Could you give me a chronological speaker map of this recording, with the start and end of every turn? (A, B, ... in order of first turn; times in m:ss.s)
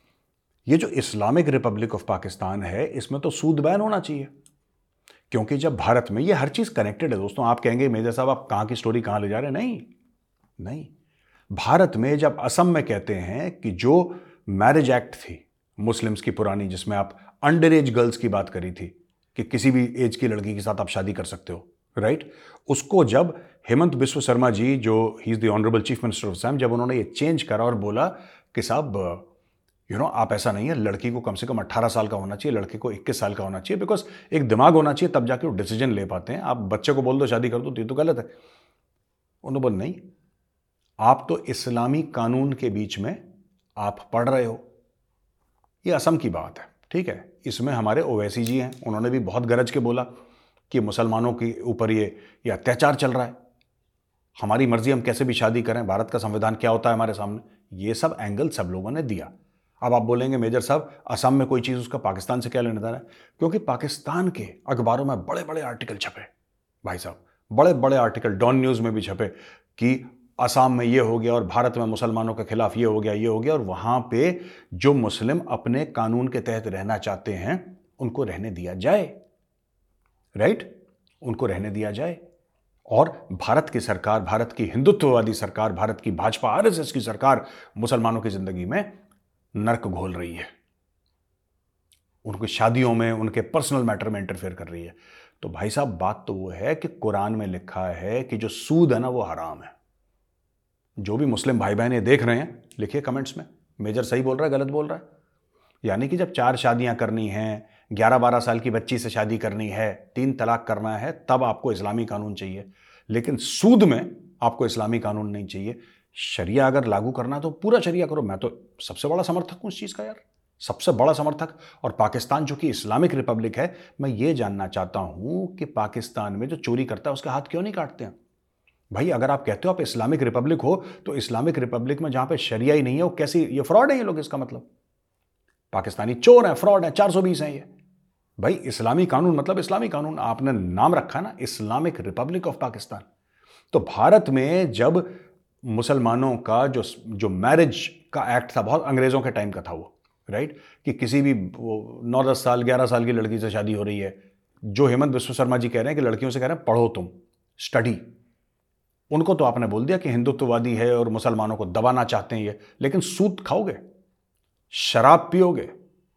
0:00.7-0:04.3 A
0:05.3-0:09.9 A
0:10.6-0:10.9 A
0:11.5-0:29.3 A
0:29.9-0:38.3 A
0:39.4-0:40.0 A
0:41.0-0:43.2 A
0:43.8-0:44.6 A
0:45.8-0:50.1 A
0:50.7-0:53.4 A
0:54.4-1:06.3 A
1:06.8-1:19.2 A
1:20.4-1:20.7 A
1:21.2-1:22.2 A
1:22.9-1:29.0 A
1:29.6-1:30.5 A
1:32.2-1:39.7 A
1:41.0-1:45.0 A
1:45.8-2:08.1 A
2:08.9-2:14.7 A
2:15.7-2:17.7 A
2:18.4-2:23.0 A
2:23.7-2:38.0 A
2:39.1-2:43.8 A
2:44.7-2:45.7 A